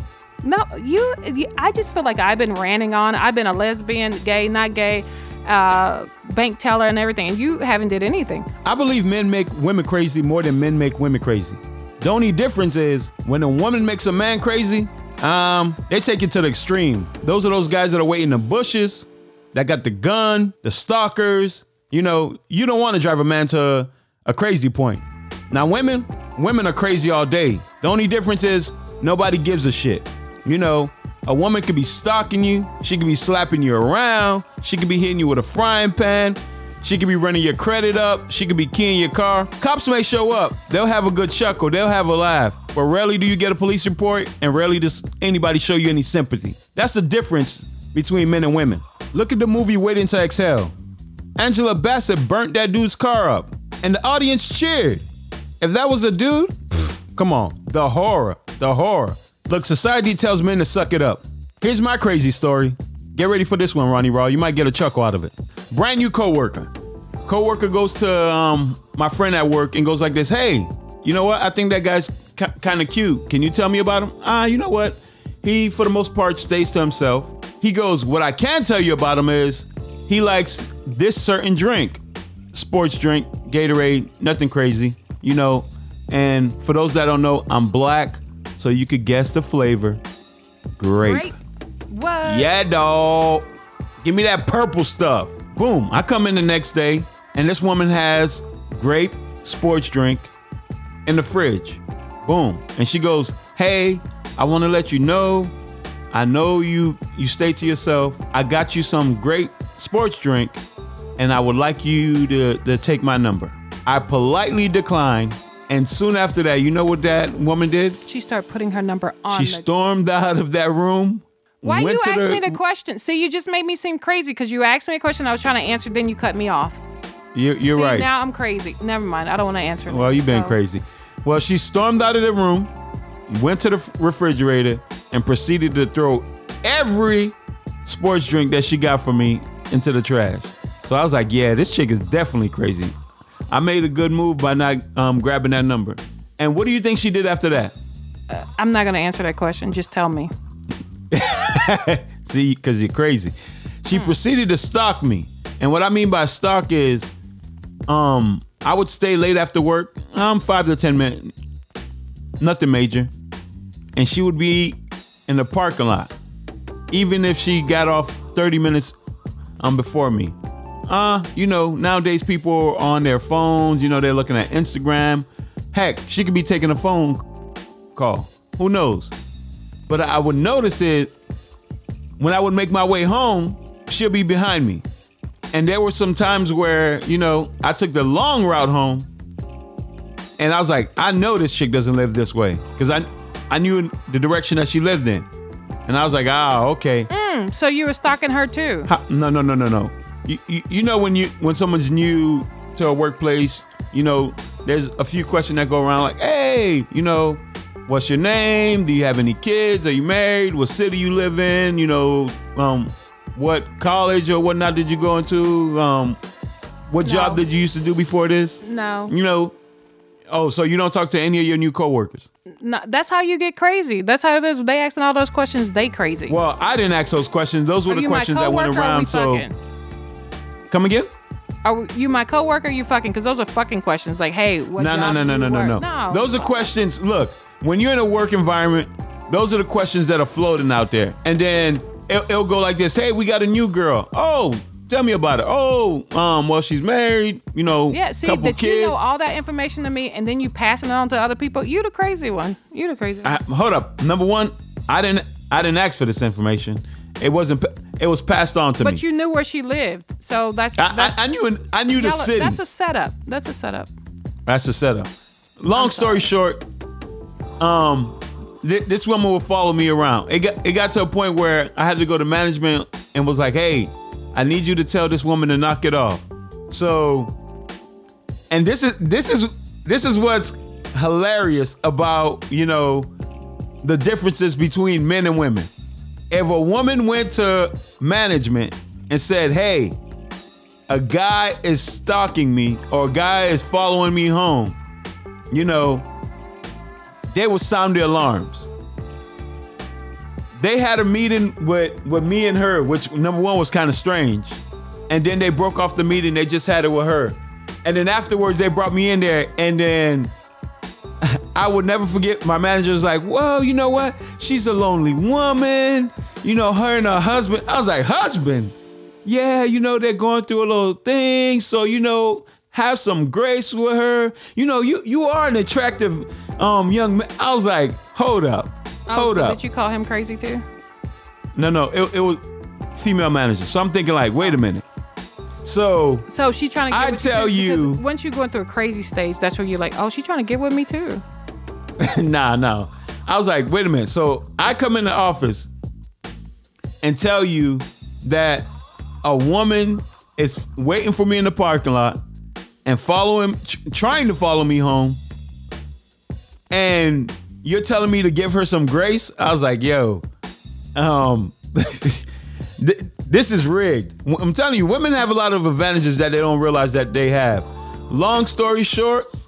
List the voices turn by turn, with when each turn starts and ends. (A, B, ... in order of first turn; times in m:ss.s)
0:00.4-0:08.5 A
0:08.6-0:50.7 B
0:51.4-0:55.0 B
0:55.6-1:06.7 B
1:07.2-1:22.0 B
1:22.5-1:30.0 B
1:30.8-1:31.3 B
1:31.0-1:31.3 A
1:31.9-1:32.5 A
1:32.2-1:33.4 B
1:34.0-1:40.3 B
1:41.0-1:45.5 B
1:46.1-1:50.6 B
1:51.2-1:58.0 B
1:58.0-1:59.6 A
1:59.3-2:02.6 B
2:01.6-2:06.8 A
2:07.3-2:08.1 B
2:07.7-2:10.6 A
2:09.9-2:12.7 B
2:13.3-2:17.3 B
2:17.8-2:22.9 B
2:23.5-2:27.7 B
2:28.3-2:30.3 A
2:31.1-2:37.1 B
2:37.9-2:41.3 B
2:42.4-2:43.1 B
2:44.0-2:46.1 B
2:46.9-2:49.0 B
2:49.6-2:50.4 B
2:50.9-2:57.2 B
2:57.9-2:59.1 B
2:59.9-3:01.1 B
3:02.2-3:04.8 B
3:05.5-3:09.1 B
3:10.4-3:15.2 B
3:15.8-3:17.1 B
3:17.1-3:18.9 A
3:18.9-3:36.2 B
3:36.9-3:39.5 B
3:37.0-3:37.4 A
3:38.6-3:39.1 A
3:40.3-3:42.3 B
3:42.6-3:46.4 A
3:46.3-3:49.4 B
3:47.9-3:49.5 A
3:50.7-3:51.1 B
3:51.6-3:56.7 A
3:54.7-4:09.0 B
4:07.9-4:13.4 A
4:13.2-4:19.0 B
4:18.8-4:21.2 A
4:20.8-4:22.6 B
4:21.9-4:23.9 A
4:24.5-4:26.6 B
4:25.7-4:26.3 A
4:27.6-4:37.3 B
4:38.5-4:43.1 B
4:43.8-4:45.7 B
4:46.3-4:50.0 B
4:50.9-4:54.8 B
4:55.5-4:56.0 B
4:57.3-4:58.7 B
5:00.6-5:10.3 B
5:11.2-5:29.6 B
5:29.1-5:30.6 A
5:31.6-5:32.4 B
5:32.9-5:34.8 B
5:35.6-5:36.3 B
5:36.3-5:41.2 A
5:36.9-5:38.0 B
5:42.0-5:45.7 B
5:47.0-5:48.7 B
5:49.2-5:52.2 B
5:52.8-5:55.2 B
5:56.7-6:00.2 B
6:01.0-6:09.3 B